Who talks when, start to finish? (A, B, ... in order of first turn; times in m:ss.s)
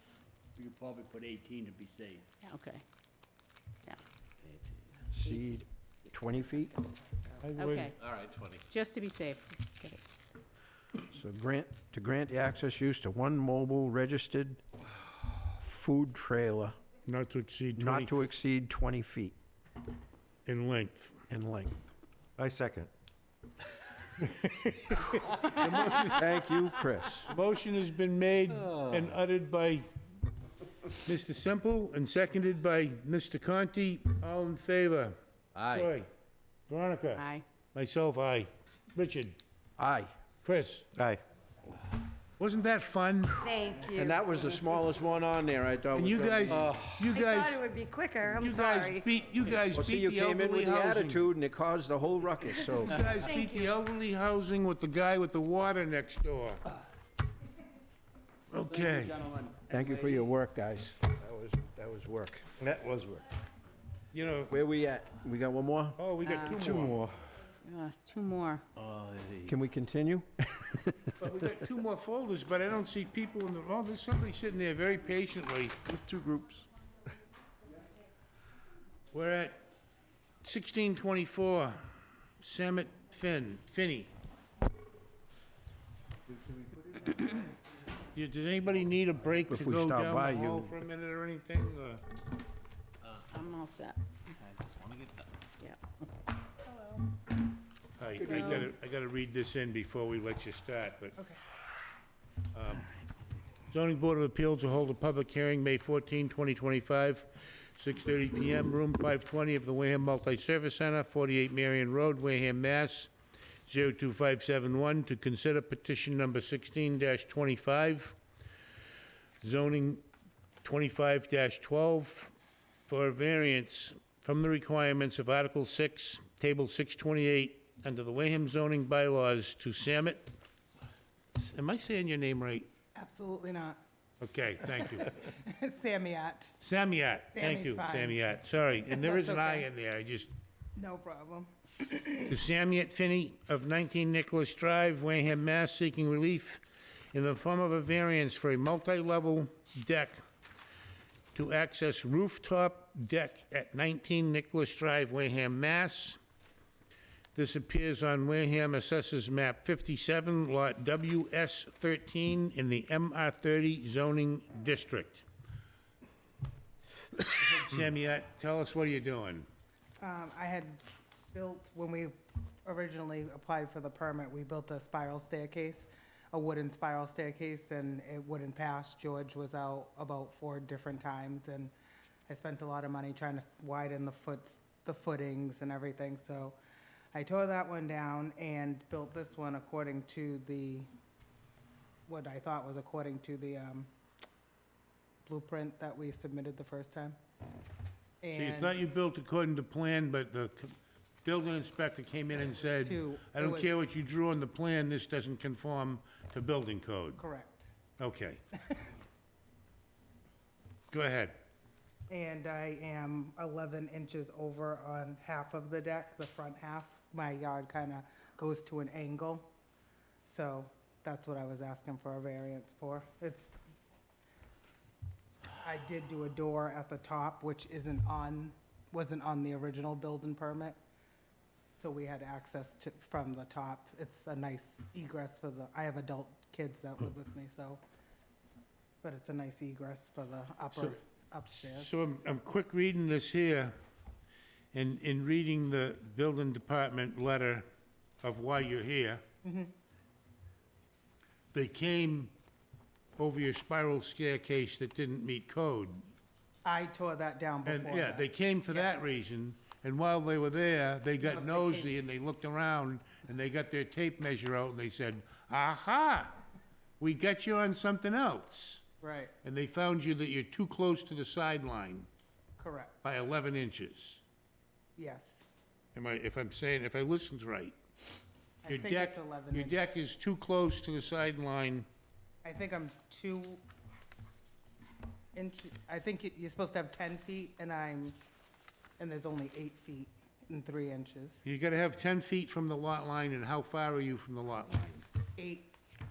0:00.6-0:02.3 A
0:02.4-0:02.8 B
0:05.1-0:06.7 C
0:07.3-0:08.0 B
0:07.4-0:07.9 D
0:08.0-0:08.6 E
0:08.7-0:10.0 B
0:11.0-0:14.6 C
0:15.6-0:16.8 C
0:17.0-0:18.2 D
0:17.8-0:19.3 C
0:20.4-0:21.2 D
0:21.3-0:21.9 C
0:22.4-0:22.9 F
0:24.9-0:26.3 D
0:26.1-0:27.3 C
0:27.3-0:29.8 D
0:31.0-0:36.1 D
0:35.6-0:35.9 E
0:36.7-0:39.4 D
0:37.2-0:37.4 B
0:39.8-0:40.1 C
0:40.4-0:40.9 D
0:41.0-0:41.2 F
0:42.4-0:43.5 D
0:43.4-0:44.2 G
0:43.9-0:46.8 C
0:46.0-0:47.6 D
0:47.2-0:49.0 G
0:48.2-0:51.3 D
0:49.7-0:53.2 C
0:52.8-0:56.6 D
0:58.5-0:59.1 D
0:58.6-1:00.3 A
0:59.7-1:03.1 C
1:02.6-1:03.2 F
1:04.1-1:04.5 D
1:04.5-1:06.0 C
1:06.0-1:07.0 D
1:06.2-1:06.7 B
1:06.6-1:07.0 C
1:06.7-1:07.0 F
1:07.6-1:08.6 B
1:08.8-1:09.4 E
1:09.4-1:11.1 C
1:11.2-1:15.8 D
1:15.9-1:16.6 F
1:19.1-1:19.6 D
1:20.4-1:21.8 D
1:22.4-1:24.1 D
1:28.1-1:32.0 D
1:29.5-1:30.7 C
1:33.2-1:34.0 B
1:34.6-1:35.2 E
1:38.0-1:41.2 D
1:38.2-1:38.7 B
1:42.5-1:42.9 D
1:43.7-1:53.1 D
1:53.7-1:58.2 D
1:59.4-2:00.0 D
2:00.6-2:02.3 D
2:02.9-2:10.3 D
2:11.3-2:12.7 D
2:13.0-2:13.8 H
2:14.2-2:15.1 D
2:14.7-2:16.6 H
2:16.6-2:20.3 D
2:17.3-2:19.7 H
2:20.8-2:22.4 H
2:22.3-2:26.6 D
2:27.1-2:30.2 D
2:31.3-2:36.2 D
2:37.3-2:45.2 D
2:47.2-2:49.5 D
2:50.0-3:01.7 H
3:02.3-3:06.6 H
3:07.1-3:10.9 H
3:12.1-3:13.9 H
3:15.3-3:17.2 H
3:18.2-3:18.8 H
3:18.3-3:27.2 D
3:22.7-3:23.8 H
3:27.2-3:27.7 H
3:28.0-3:28.4 D
3:28.6-3:28.8 H
3:30.9-3:31.4 D
3:32.1-3:39.5 H
3:40.3-3:43.6 H
3:45.6-3:50.8 H
3:51.8-3:57.8 H
3:59.0-4:02.1 H
4:01.6-4:03.7 D
4:04.7-4:07.6 D
4:08.2-4:09.2 D
4:09.4-4:09.7 H
4:11.5-4:12.3 D
4:13.2-4:16.0 D
4:16.6-4:18.9 H
4:17.6-4:26.4 D
4:21.2-4:22.0 H
4:27.0-4:28.8 D
4:29.0-4:29.3 H
4:29.4-4:32.1 D
4:32.6-4:33.0 H
4:33.0-4:34.2 D
4:35.0-4:35.4 H
4:35.9-4:37.8 D
4:38.6-4:39.8 H
4:38.7-4:41.9 D
4:42.4-4:43.6 H
4:45.3-4:48.2 H
4:49.0-4:51.4 H
4:51.4-4:55.0 D
4:55.4-4:55.7 H